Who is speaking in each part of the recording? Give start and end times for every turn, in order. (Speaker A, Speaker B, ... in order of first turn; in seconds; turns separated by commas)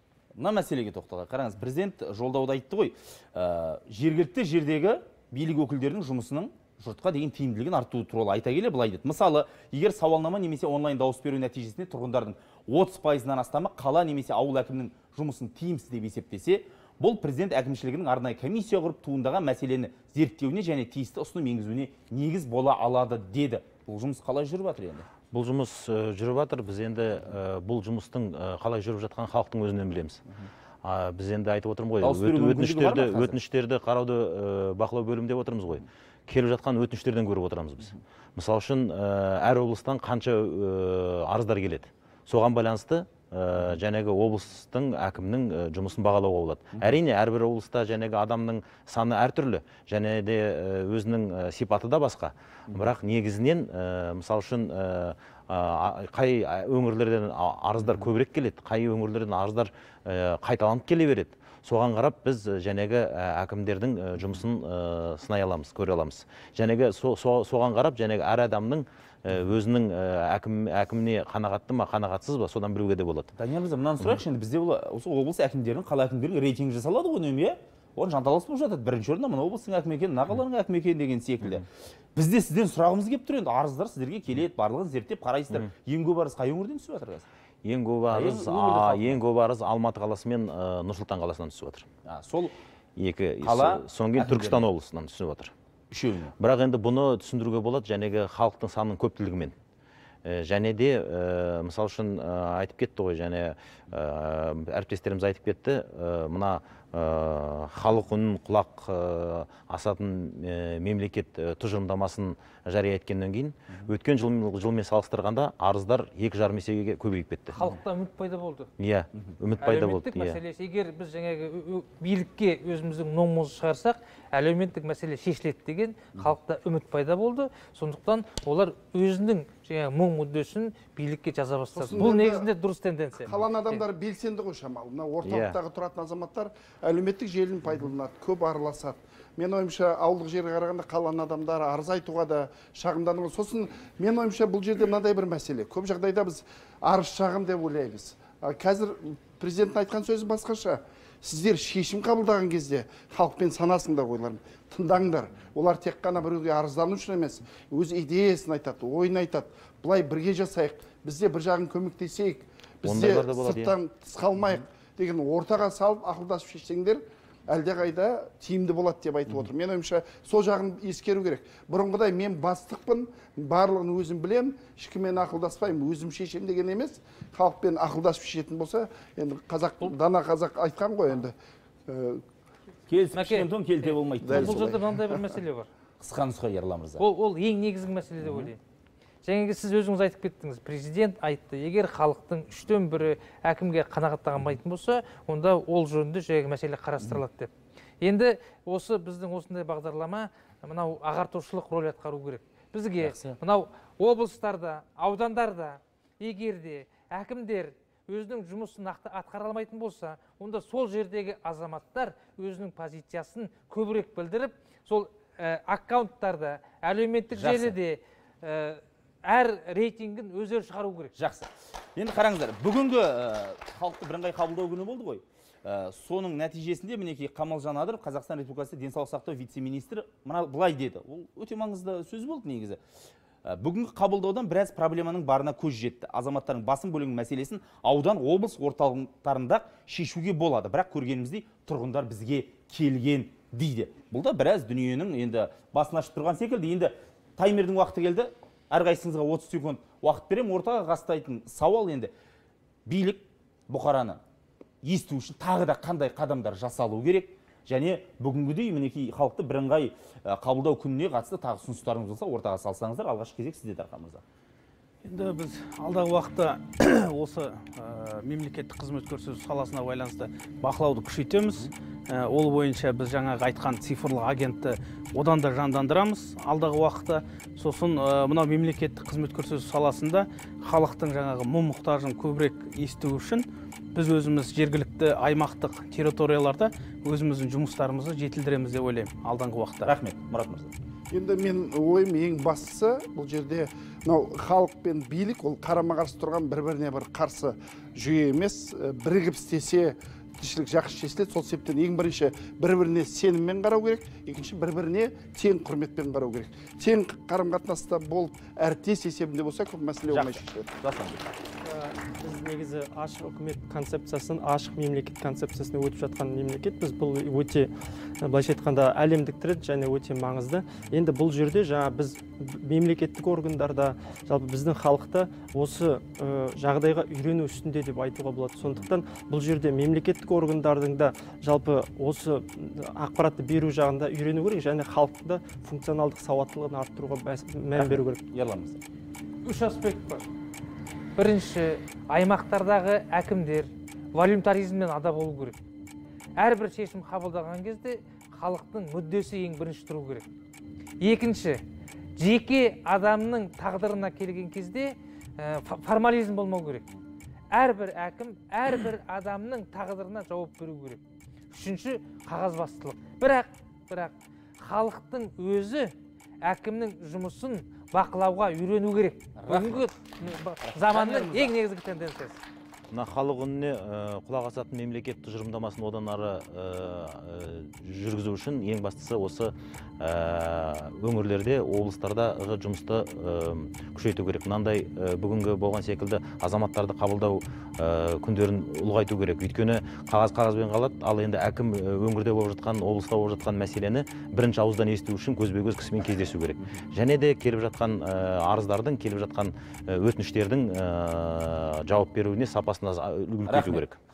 Speaker A: 0.3-25.1, Speaker B: 25.3-30.2, Speaker B: 30.8-73.3, Speaker A: 32.0-33.4, Speaker A: 73.3-87.3, Speaker B: 87.6-91.8, Speaker A: 88.1-89.2, Speaker A: 92.0-92.5, Speaker B: 93.0-95.5, Speaker A: 93.4-94.6, Speaker A: 95.9-96.3, Speaker B: 96.4-99.5, Speaker B: 100.2-117.5, Speaker C: 117.5-118.7, Speaker B: 118.8-120.4, Speaker C: 119.6-133.8, Speaker D: 131.7-132.5, Speaker D: 133.2-181.3, Speaker B: 135.2-135.6, Speaker B: 162.8-163.7, Speaker D: 181.9-182.2, Speaker A: 182.9-184.7, Speaker C: 183.1-185.7, Speaker D: 184.2-185.2, Speaker A: 186.0-187.0, Speaker C: 187.0-188.6, Speaker A: 188.2-188.5, Speaker C: 189.2-221.1, Speaker A: 203.0-203.3, Speaker A: 217.3-217.8, Speaker A: 221.2-232.8, Speaker A: 233.4-252.1, Speaker A: 252.8-254.2, Speaker A: 254.8-264.2, Speaker E: 265.0-289.9, Speaker A: 289.8-290.7, Speaker D: 291.1-310.7, Speaker A: 310.1-311.2, Speaker F: 311.6-338.2, Speaker A: 337.7-338.8, Speaker C: 339.4-340.3, Speaker C: 341.2-345.6, Speaker C: 346.4-350.3, Speaker C: 351.0-351.6, Speaker C: 352.2-356.9, Speaker C: 357.5-372.4, Speaker A: 369.4-371.5, Speaker B: 372.9-404.0, Speaker A: 403.5-403.8